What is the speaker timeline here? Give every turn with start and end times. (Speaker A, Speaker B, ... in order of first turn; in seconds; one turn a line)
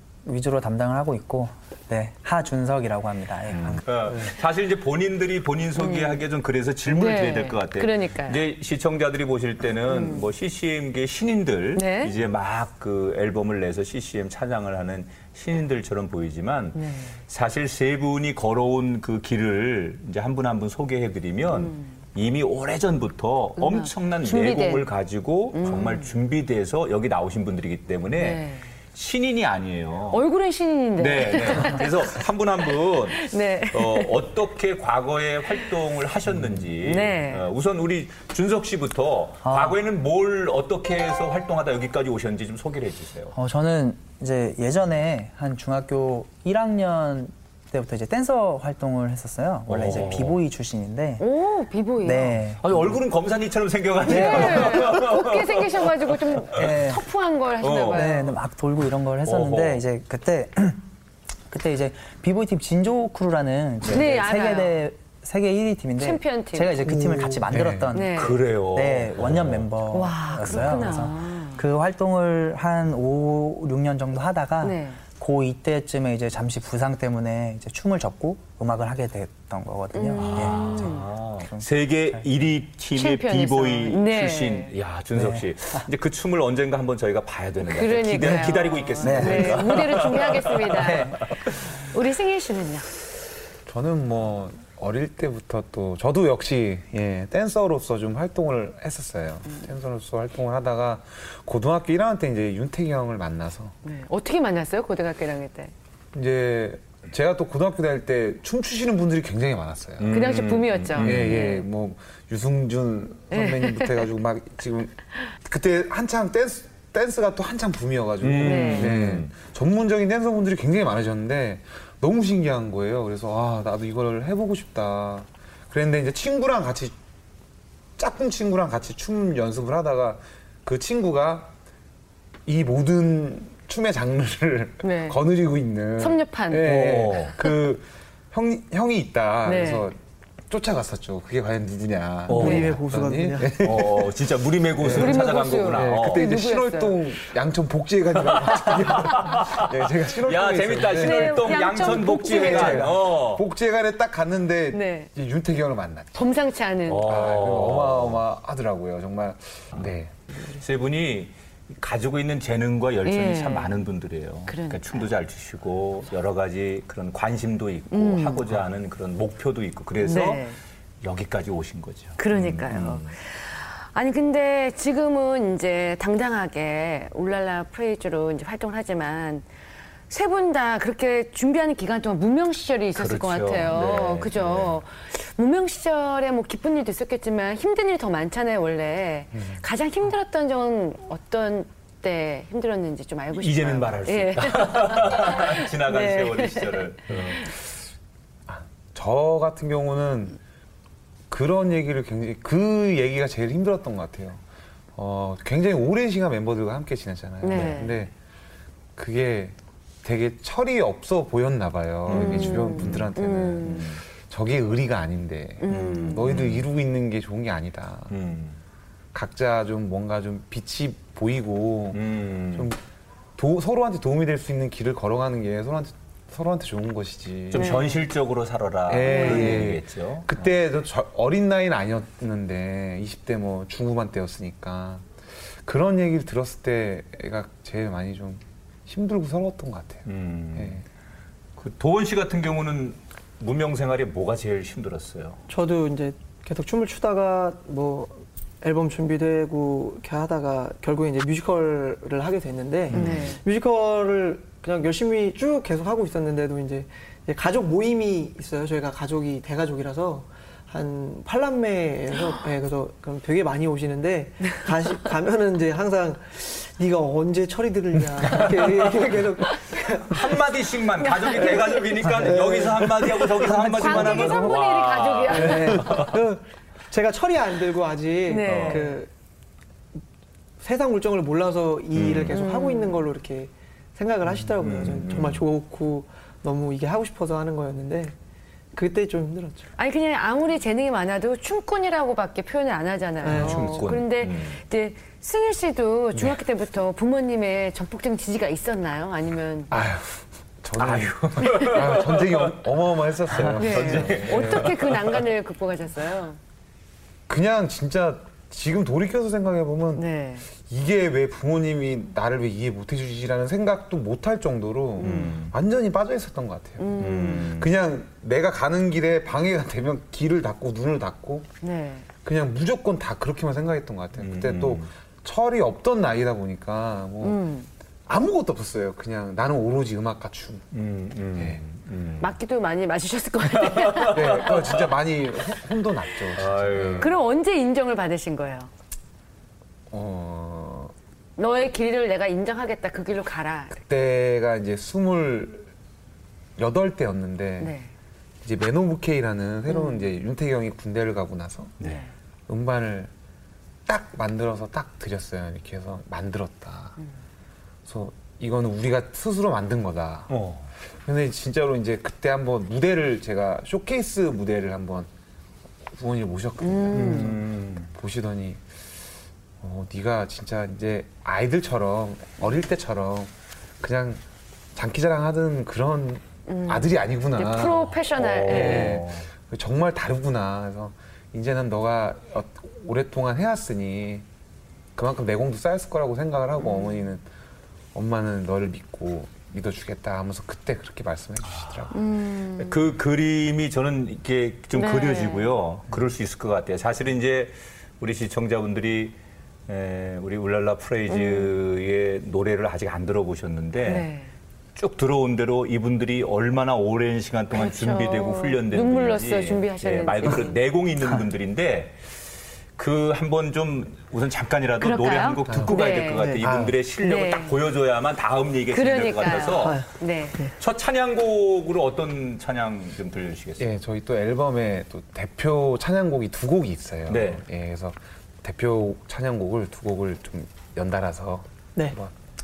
Speaker A: 0.2-4.3
Speaker B: 3.5-30.2
Speaker C: 5.8-6.2
Speaker C: 6.9-8.4
Speaker C: 9.9-10.3
Speaker C: 11.8-12.2
Speaker C: 16.8-17.2
Speaker C: 21.5-21.9
Speaker C: 23.6-24.9
Speaker C: 25.5-26.1
Speaker C: 28.2-28.7
Speaker C: 30.1-32.2
Speaker B: 31.0-43.4
Speaker C: 33.1-34.1
Speaker C: 36.8-37.5
Speaker A: 39.4-39.8
Speaker A: 43.3-51.2
Speaker B: 49.7-50.4
Speaker C: 51.2-52.4
Speaker A: 52.0-53.0
Speaker B: 52.6-56.6
Speaker C: 54.0-58.4
Speaker A: 54.1-55.0
Speaker A: 56.5-57.0
Speaker B: 57.6-58.0
Speaker A: 57.9-60.8
Speaker B: 59.2-59.8
Speaker A: 61.5-82.2
Speaker C: 63.9-64.8
Speaker C: 66.0-66.9
Speaker D: 67.5-68.0
Speaker C: 67.9-68.4
Speaker B: 68.1-69.7
Speaker C: 69.9-71.6
Speaker C: 74.6-75.0
Speaker C: 79.9-81.1
Speaker B: 80.2-91.1
Speaker C: 83.0-84.7
Speaker A: 85.2-85.8
Speaker C: 87.6-92.9
Speaker A: 89.0-90.0
Speaker A: 90.7-91.2
Speaker D: 93.7-103.8
Speaker C: 103.8-105.7
Speaker D: 106.1-110.3
Speaker B: 110.0-111.4
Speaker C: 110.1-111.7
Speaker D: 111.0-127.0
Speaker C: 113.3-114.1
Speaker B: 118.2-119.3
Speaker C: 118.4-118.9
Speaker D: 128.0-131.5
Speaker D: 132.5-140.0
Speaker C: 134.8-135.2
Speaker C: 136.0-136.7
Speaker B: 136.6-137.3
Speaker C: 139.4-139.9
Speaker D: 140.5-144.2
Speaker B: 142.3-142.8
Speaker E: 142.3-143.7
Speaker B: 143.6-146.2
Speaker D: 144.8-156.3
Speaker C: 144.9-147.1
Speaker B: 148.2-153.4
Speaker C: 150.9-152.9
Speaker C: 154.7-155.1
Speaker C: 156.2-157.2
Speaker B: 156.9-158.2
Speaker D: 157.0-160.1
Speaker B: 159.7-173.1
Speaker C: 163.1-163.8
Speaker C: 164.5-165.1
Speaker C: 167.9-168.6
Speaker C: 170.0-170.6
Speaker C: 172.2-179.5
Speaker C: 180.1-197.5
Speaker B: 182.9-184.8
Speaker D: 189.3-189.6
Speaker B: 193.3-197.5
Speaker D: 198.5-200.4
Speaker D: 201.3-204.4
Speaker D: 205.0-208.1
Speaker C: 207.4-208.0
Speaker B: 207.5-207.9
Speaker D: 209.0-218.2
Speaker C: 212.1-213.9
Speaker B: 212.1-213.1
Speaker B: 213.6-214.0
Speaker C: 215.6-216.6
Speaker B: 215.7-216.6
Speaker B: 218.1-218.6
Speaker D: 219.1-222.8
Speaker B: 221.9-222.7
Speaker D: 223.4-227.8
Speaker B: 227.5-230.5
Speaker C: 227.5-228.0
Speaker D: 228.9-240.8
Speaker C: 229.0-229.7
Speaker B: 240.1-240.8
Speaker B: 241.6-245.4
Speaker E: 245.5-270.4
Speaker B: 252.9-253.3
Speaker C: 252.9-253.4
Speaker B: 268.3-269.1
Speaker B: 270.1-276.2
Speaker C: 271.0-271.7
Speaker E: 271.3-274.6
Speaker C: 273.1-276.0
Speaker E: 275.3-279.1
Speaker C: 278.3-279.0
Speaker B: 278.5-278.9
Speaker E: 280.6-288.1
Speaker B: 281.9-282.4
Speaker C: 282.3-283.1
Speaker B: 284.4-285.4
Speaker E: 288.7-289.7
Speaker C: 289.8-299.7
Speaker E: 293.2-293.8
Speaker B: 293.3-294.6
Speaker D: 299.7-304.8
Speaker B: 300.8-302.6
Speaker B: 303.3-305.3
Speaker C: 303.6-306.4
Speaker D: 307.3-321.5
Speaker C: 309.9-310.5
Speaker B: 315.0-315.5
Speaker C: 315.0-315.4
Speaker C: 316.8-317.5
Speaker B: 317.0-317.7
Speaker C: 321.6-322.1
Speaker D: 322.2-327.4
Speaker B: 324.2-324.9
Speaker C: 327.2-327.7
Speaker D: 328.1-330.6
Speaker B: 330.7-332.4
Speaker D: 331.4-331.6
Speaker C: 332.2-334.5
Speaker B: 333.5-334.9
Speaker D: 334.1-337.1
Speaker B: 336.3-337.2
Speaker C: 337.0-338.7
Speaker D: 339.9-340.9
Speaker C: 341.4-343.8
Speaker D: 343.7-345.7
Speaker D: 346.6-347.7
Speaker C: 347.6-347.9
Speaker D: 348.4-351.8
Speaker C: 349.7-350.1
Speaker B: 351.8-352.0
Speaker C: 351.8-352.1
Speaker D: 352.5-353.1
Speaker D: 353.9-357.0
Speaker D: 357.9-360.3
Speaker B: 360.3-360.7
Speaker D: 360.9-365.1
Speaker D: 365.9-368.6
Speaker C: 366.6-367.4
Speaker B: 366.9-367.9
Speaker D: 369.6-374.2
Speaker D: 374.8-384.3
Speaker C: 376.5-379.0
Speaker B: 377.7-379.3
Speaker D: 384.9-387.3
Speaker C: 386.6-387.0
Speaker D: 387.9-392.0
Speaker B: 391.5-391.9
Speaker C: 391.9-392.8
Speaker B: 392.6-399.2
Speaker C: 394.8-395.5
Speaker B: 399.7-404.1
Speaker C: 401.1-401.5
Speaker C: 403.8-404.3
Speaker B: 404.8-412.0
Speaker C: 407.5-410.6
Speaker B: 412.8-419.9
Speaker C: 414.8-416.4
Speaker D: 415.5-415.8
Speaker E: 416.1-416.4
Speaker D: 416.4-416.8
Speaker C: 417.0-417.6
Speaker C: 418.7-420.4
Speaker E: 419.5-420.6
Speaker B: 420.6-423.7
Speaker D: 423.6-432.1
Speaker B: 427.1-427.4